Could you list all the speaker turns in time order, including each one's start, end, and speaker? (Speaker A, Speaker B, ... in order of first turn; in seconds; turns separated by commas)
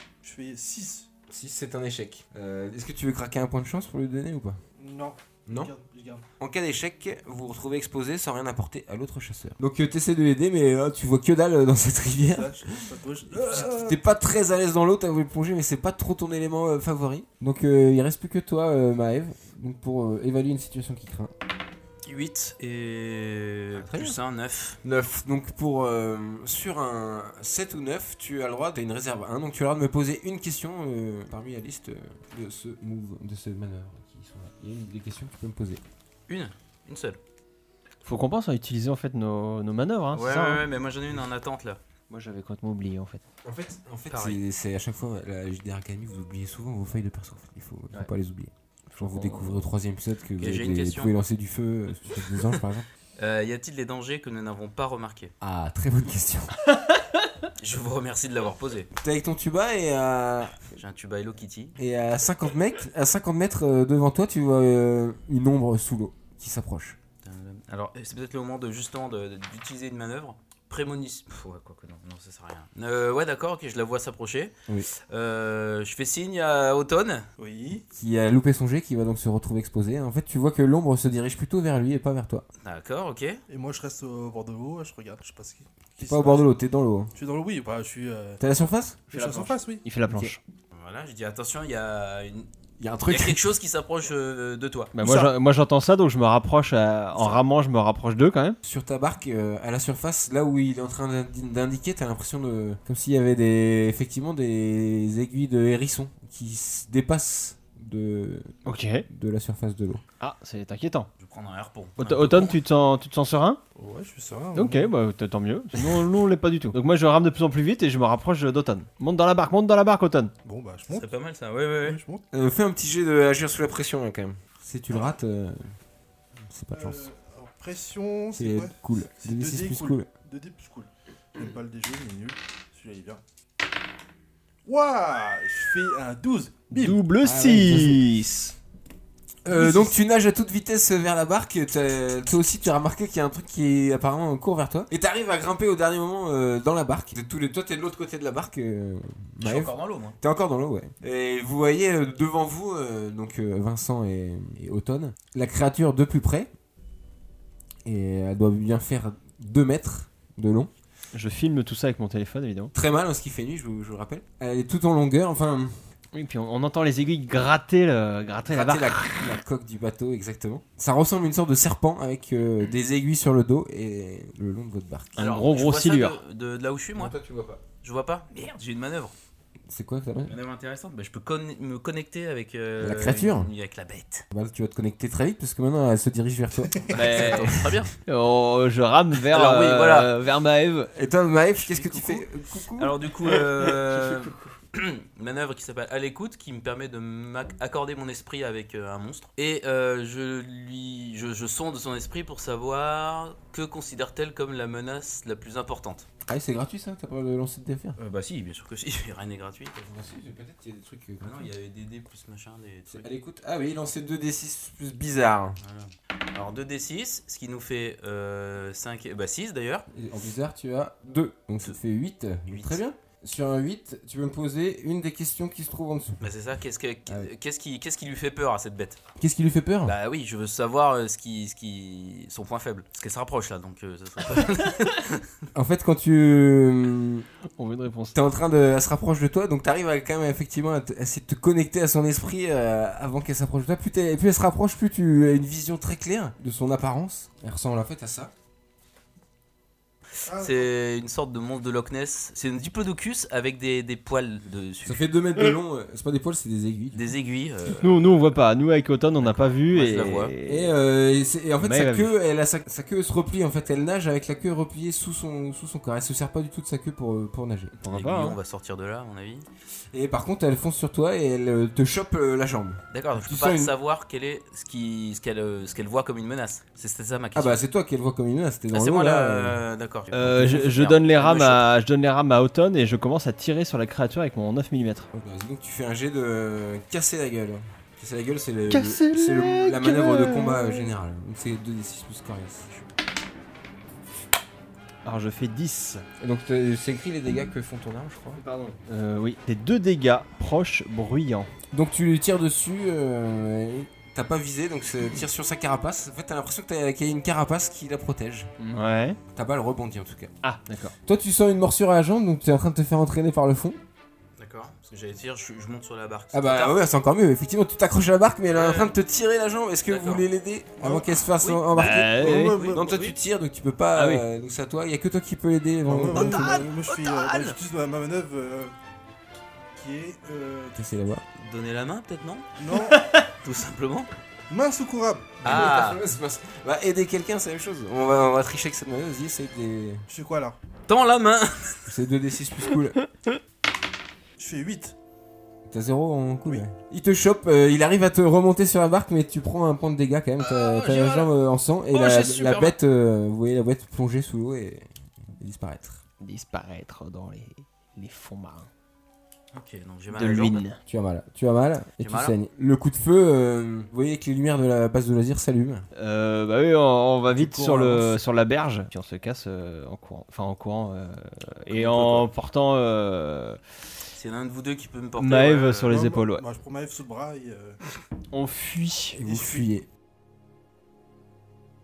Speaker A: 0.2-1.1, Speaker B: 1.3-4.6, Speaker A: 4.8-6.2, Speaker B: 5.5-5.7, Speaker B: 6.4-12.7, Speaker A: 12.2-14.0, Speaker B: 13.2-21.3, Speaker C: 22.0-24.8, Speaker B: 23.7-24.2, Speaker B: 24.8-35.8, Speaker C: 36.3-37.2, Speaker D: 38.0-40.6, Speaker C: 40.1-41.8, Speaker D: 42.1-43.2, Speaker B: 43.4-52.9, Speaker C: 44.1-44.4, Speaker D: 48.9-49.6, Speaker C: 50.4-51.1, Speaker C: 53.2-55.3, Speaker B: 55.4-56.6, Speaker C: 57.6-58.9, Speaker B: 59.0-60.6, Speaker C: 60.7-61.7, Speaker B: 61.8-67.0, Speaker C: 67.2-74.5, Speaker C: 75.1-77.3, Speaker A: 77.4-77.8, Speaker B: 77.9-82.4, Speaker C: 82.6-83.4, Speaker A: 83.5-86.5, Speaker B: 86.0-87.1, Speaker A: 87.1-88.4, Speaker B: 88.4-89.0, Speaker D: 89.1-90.4, Speaker A: 89.1-89.8, Speaker B: 90.1-90.3, Speaker C: 90.7-92.5, Speaker B: 92.8-93.4, Speaker C: 93.1-94.9, Speaker D: 94.9-98.6, Speaker B: 98.6-110.0, Speaker D: 108.7-109.0, Speaker D: 110.2-111.1, Speaker C: 111.2-112.6, Speaker D: 112.0-113.6, Speaker A: 113.8-114.9, Speaker D: 114.5-120.3, Speaker A: 120.4-121.1, Speaker C: 120.9-122.0, Speaker A: 121.8-122.2, Speaker B: 122.3-125.7, Speaker A: 124.9-125.2, Speaker B: 126.5-127.1, Speaker A: 126.7-133.2, Speaker B: 128.3-130.1, Speaker A: 134.6-137.0, Speaker D: 136.7-138.5, Speaker B: 137.2-138.0, Speaker B: 139.4-156.5, Speaker A: 139.5-139.9, Speaker C: 149.4-150.2, Speaker B: 157.8-160.7, Speaker D: 161.1-162.7, Speaker B: 162.7-165.8, Speaker D: 166.1-169.3, Speaker B: 168.4-175.3, Speaker D: 175.2-176.2, Speaker C: 175.2-177.1, Speaker B: 176.9-177.6, Speaker C: 177.8-179.1, Speaker B: 179.7-180.4, Speaker C: 180.3-184.2, Speaker B: 182.8-183.5, Speaker B: 184.3-187.8, Speaker C: 186.9-187.9, Speaker D: 186.9-190.9, Speaker C: 189.3-190.1, Speaker B: 190.9-193.0, Speaker C: 191.7-192.2, Speaker C: 192.8-206.1, Speaker B: 206.2-208.0, Speaker C: 208.0-209.9, Speaker B: 209.8-211.5, Speaker C: 211.2-213.1, Speaker B: 212.9-215.6, Speaker C: 215.6-219.8, Speaker B: 219.9-226.2, Speaker C: 222.5-222.8, Speaker C: 226.2-229.0, Speaker B: 229.2-229.9, Speaker C: 229.8-235.2, Speaker B: 235.5-237.2, Speaker D: 237.6-238.2, Speaker B: 238.1-248.3, Speaker A: 250.2-250.7, Speaker C: 250.3-255.0, Speaker B: 254.8-257.1, Speaker C: 256.9-258.0, Speaker D: 257.7-260.8, Speaker C: 259.2-260.3, Speaker B: 260.4-267.7, Speaker D: 261.6-262.1, Speaker D: 267.8-268.4, Speaker C: 267.9-269.4, Speaker B: 269.9-273.7, Speaker C: 272.9-277.6, Speaker B: 277.3-279.6, Speaker C: 278.7-281.7, Speaker D: 280.1-285.1, Speaker B: 285.1-292.7, Speaker D: 288.7-290.9, Speaker D: 295.0-296.1, Speaker B: 296.2-298.4, Speaker D: 298.3-301.5, Speaker B: 301.7-308.5, Speaker D: 308.6-309.2, Speaker B: 309.3-310.3, Speaker D: 310.4-310.9, Speaker B: 311.0-313.8, Speaker C: 314.4-316.8, Speaker B: 316.3-326.8, Speaker C: 318.5-318.9, Speaker C: 319.9-320.2, Speaker A: 320.8-321.1, Speaker C: 321.4-321.7, Speaker D: 321.7-322.6, Speaker A: 321.9-322.9, Speaker C: 322.3-323.1, Speaker D: 323.9-324.2, Speaker A: 325.9-328.7, Speaker C: 326.2-327.5, Speaker A: 329.7-330.8, Speaker B: 330.8-331.2, Speaker C: 331.4-332.6, Speaker A: 332.6-333.1, Speaker C: 333.2-334.1, Speaker A: 334.5-335.4, Speaker C: 335.4-336.0, Speaker B: 335.4-340.1, Speaker A: 340.1-340.6, Speaker C: 340.9-341.8, Speaker B: 341.9-342.9, Speaker A: 344.4-344.9, Speaker B: 345.7-356.0, Speaker C: 350.4-351.3, Speaker C: 351.9-352.8, Speaker D: 356.2-358.7, Speaker C: 359.5-360.6, Speaker D: 360.1-360.8, Speaker B: 360.9-365.9, Speaker C: 362.0-362.4, Speaker D: 365.9-373.6, Speaker B: 367.3-368.2, Speaker C: 371.7-372.3, Speaker C: 374.1-375.9, Speaker D: 375.2-376.4, Speaker A: 375.9-377.8, Speaker D: 378.3-379.2, Speaker B: 379.1-379.9, Speaker A: 379.2-379.6